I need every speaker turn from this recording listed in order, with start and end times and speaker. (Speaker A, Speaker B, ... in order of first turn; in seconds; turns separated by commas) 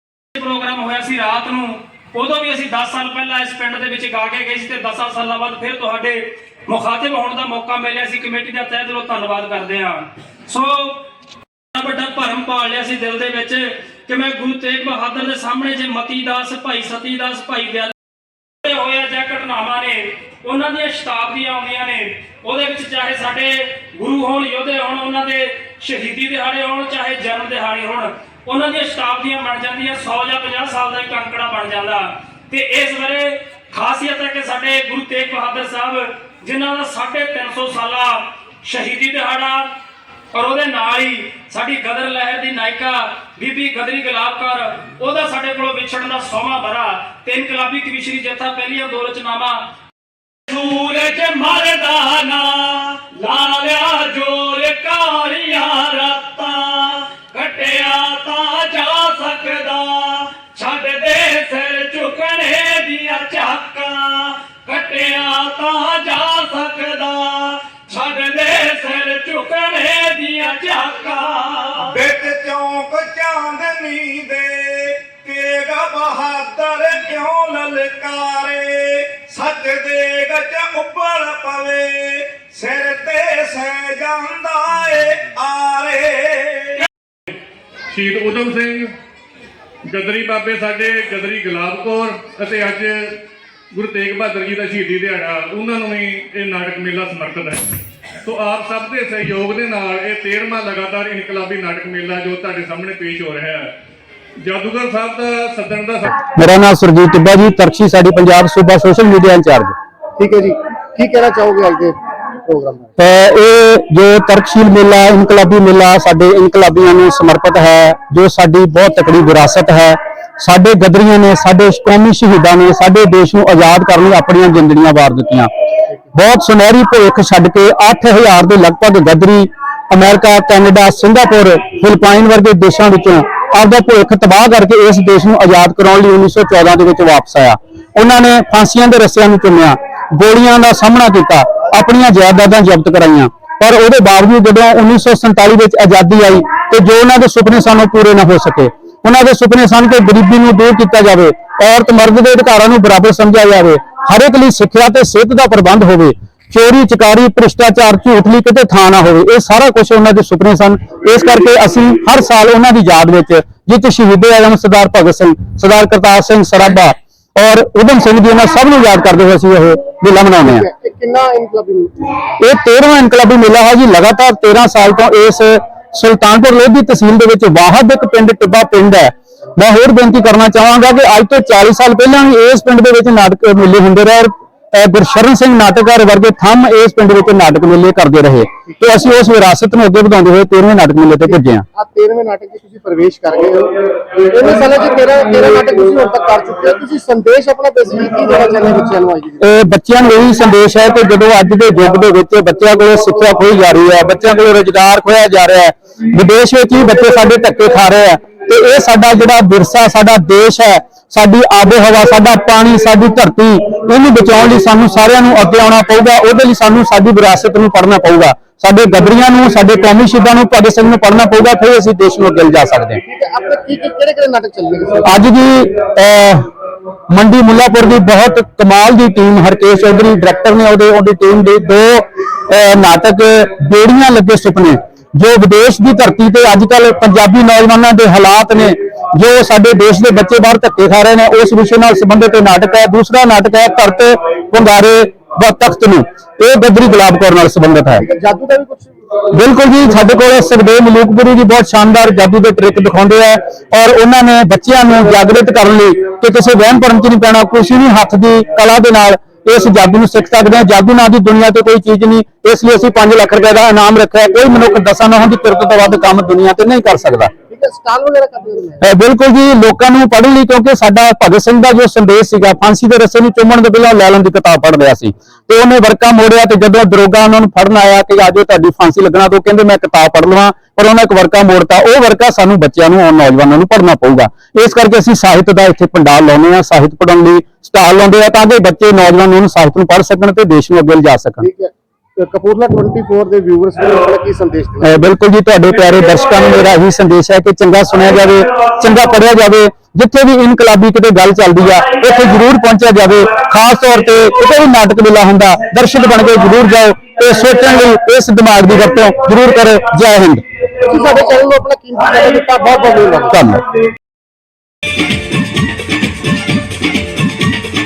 Speaker A: 0.3-11.0, Speaker A: 11.7-17.9, Speaker A: 18.6-39.7, Speaker A: 40.3-49.6, Speaker A: 50.5-72.0, Speaker B: 71.9-86.8, Speaker C: 87.9-88.9, Speaker C: 89.8-103.8, Speaker C: 104.4-106.2, Speaker D: 106.3-109.8, Speaker E: 110.2-112.9, Speaker D: 113.0-125.5, Speaker D: 126.1-170.7, Speaker E: 170.4-172.1, Speaker D: 172.4-191.6, Speaker E: 191.3-199.4, Speaker D: 199.4-223.0, Speaker E: 223.0-225.2, Speaker D: 225.1-226.5, Speaker D: 227.1-248.0, Speaker E: 248.0-248.9, Speaker D: 249.3-267.3, Speaker E: 267.5-268.9, Speaker D: 268.8-291.5, Speaker E: 291.4-295.0, Speaker D: 294.8-310.4, Speaker E: 310.9-313.4, Speaker D: 313.3-313.6